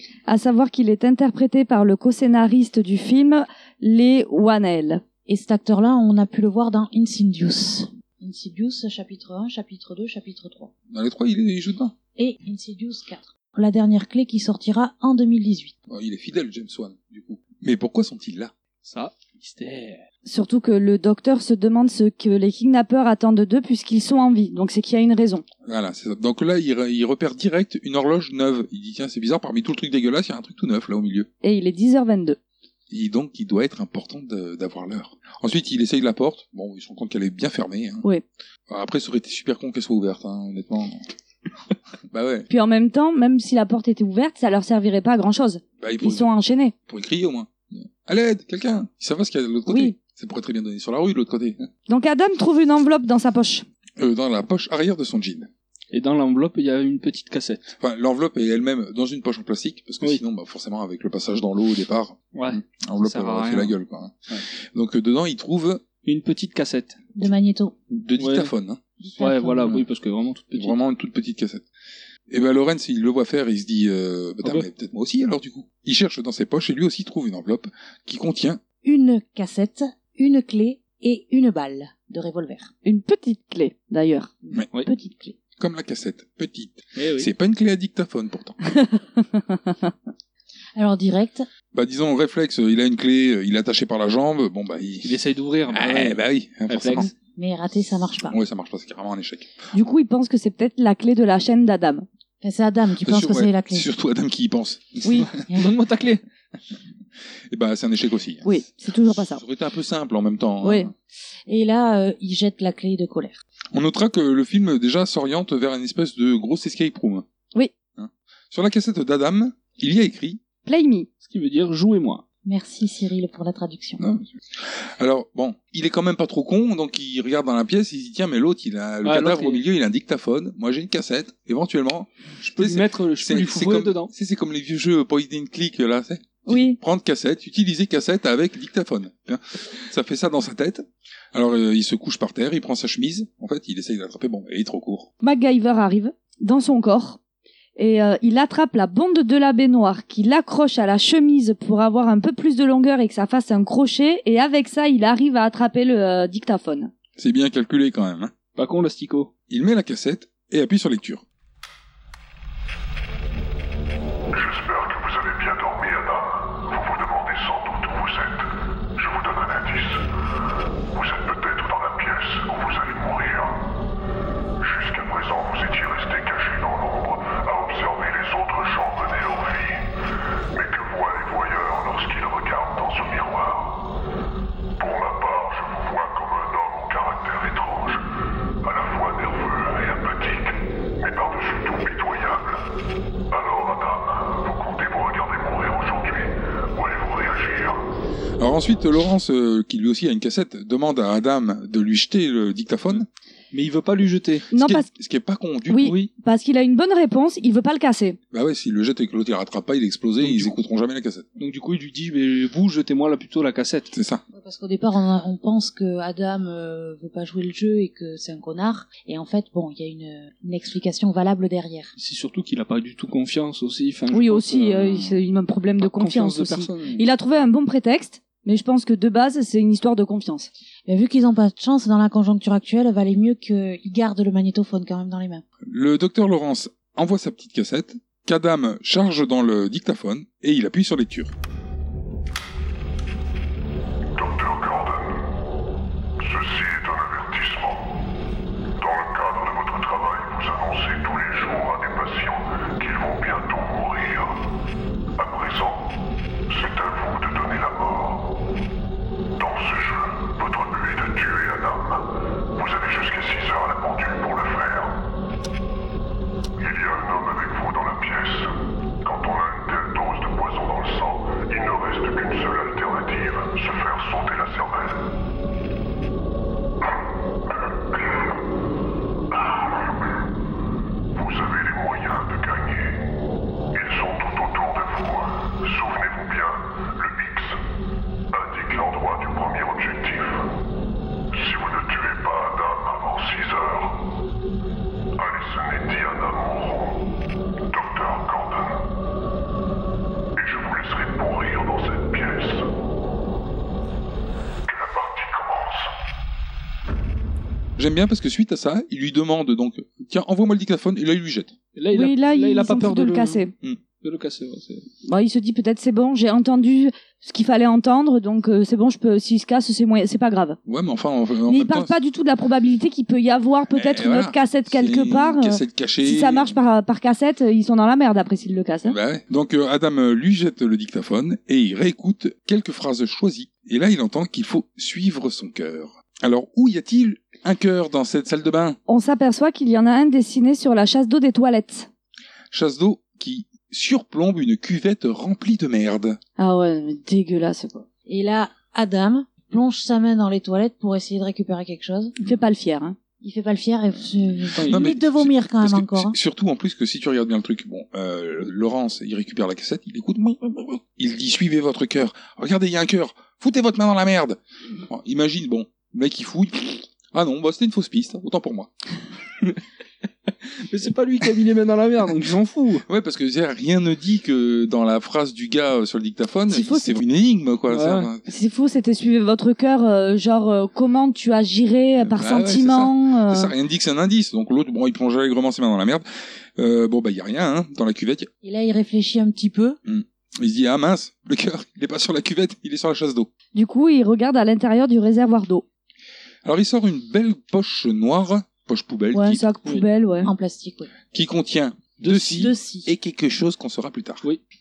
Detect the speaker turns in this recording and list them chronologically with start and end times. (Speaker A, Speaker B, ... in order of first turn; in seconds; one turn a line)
Speaker A: 0.3-5.0
Speaker B: 5.3-10.7
Speaker C: 10.9-11.9
Speaker B: 12.2-15.7
Speaker C: 15.9-18.5
Speaker D: 18.8-20.0
Speaker A: 20.2-25.4
Speaker C: 25.6-31.3
Speaker A: 31.4-32.4
Speaker C: 32.9-38.0
Speaker C: 38.7-41.0
Speaker C: 42.1-42.5
Speaker A: 42.5-46.7
Speaker C: 45.8-46.3
Speaker C: 46.9-51.7
Speaker A: 49.7-50.0
Speaker A: 51.9-53.6
Speaker C: 54.0-55.5
Speaker D: 55.9-57.7
Speaker C: 57.8-65.9
Speaker D: 62.3-63.8
Speaker D: 66.0-67.0
Speaker B: 67.2-67.8
Speaker C: 67.9-68.8
Speaker D: 68.2-68.5
Speaker B: 69.0-69.5
Speaker D: 69.2-70.8
Speaker C: 70.5-71.7
Speaker C: 72.3-78.6
Speaker B: 78.8-82.7
Speaker A: 82.8-84.3
Speaker B: 84.5-85.3
Speaker C: 85.6-88.6
Speaker D: 87.0-87.3
Speaker A: 88.7-89.9
Speaker B: 90.8-91.5
Speaker C: 91.7-97.1
Speaker D: 95.0-97.1
Speaker B: 97.3-98.4
Speaker C: 98.3-99.5
Speaker A: 99.7-102.1
Speaker B: 102.4-103.9
Speaker C: 103.0-105.3
Speaker A: 105.0-105.3
Speaker D: 105.4-106.2
Speaker C: 107.5-108.5
Speaker A: 108.4-109.4
Speaker C: 109.2-110.9
Speaker A: 110.6-110.9
Speaker B: 111.5-113.4
Speaker C: 113.7-117.2
Speaker C: 118.0-120.4
Speaker A: 120.7-121.1
Speaker D: 121.2-122.2
Speaker B: 122.5-124.0
Speaker C: 124.0-145.1
Speaker D: 129.0-129.6
Speaker D: 132.4-134.1
Speaker A: 136.5-136.8
Speaker A: 145.2-147.2
Speaker A: 147.8-156.9
Speaker C: 157.2-158.3
Speaker D: 158.6-159.3
Speaker C: 159.5-161.2
Speaker E: 164.3-170.1
Speaker E: 170.9-173.6
Speaker E: 174.6-179.9
Speaker E: 180.5-183.8
Speaker E: 184.8-188.0
Speaker E: 188.6-192.7
Speaker E: 193.3-197.8
Speaker C: 198.4-203.1
Speaker D: 202.9-204.5
Speaker A: 204.5-204.9
Speaker C: 204.5-206.0
Speaker A: 205.7-208.2
Speaker D: 205.8-206.1
Speaker C: 208.3-211.3
Speaker D: 210.2-210.6
Speaker D: 211.4-213.9
Speaker C: 213.9-214.2
Speaker B: 214.3-221.9
Speaker D: 222.0-225.2
Speaker A: 224.1-230.5
Speaker D: 225.8-227.1
Speaker B: 230.9-235.4
Speaker C: 235.7-241.3
Speaker E: 244.2-245.3
Speaker E: 246.2-248.0
Speaker E: 248.8-254.4
Speaker E: 255.2-255.9
Speaker E: 256.5-258.3
Speaker E: 259.4-265.0
Speaker E: 266.6-275.1
Speaker E: 278.0-278.2
Speaker E: 279.4-279.7
Speaker E: 281.1-283.0
Speaker E: 283.7-287.6
Speaker E: 288.3-290.5
Speaker E: 291.3-294.1
Speaker E: 295.2-297.0
Speaker E: 297.7-298.8
Speaker E: 300.4-302.7
Speaker E: 304.7-305.9
Speaker C: 307.8-311.6
Speaker D: 311.8-314.9
Speaker A: 311.9-313.5
Speaker A: 315.1-320.6
Speaker C: 320.7-322.0
Speaker A: 321.5-329.0
Speaker C: 323.7-326.5
Speaker C: 328.9-338.8
Speaker A: 338.9-341.9
Speaker C: 342.5-346.2
Speaker A: 346.4-347.9
Speaker B: 348.1-352.1
Speaker A: 352.2-353.0
Speaker B: 353.2-356.2
Speaker D: 354.5-354.9
Speaker C: 354.7-368.7
Speaker D: 370.4-372.8
Speaker C: 372.9-378.2
Speaker A: 376.5-377.0
Speaker D: 377.7-378.1
Speaker A: 378.3-383.5
Speaker C: 382.0-388.3
Speaker B: 388.4-389.8
Speaker C: 389.9-393.3
Speaker A: 393.6-395.6
Speaker C: 396.4-399.4
Speaker A: 399.1-400.3
Speaker B: 400.2-400.9
Speaker C: 401.1-404.2
Speaker D: 402.0-402.5
Speaker B: 402.2-402.9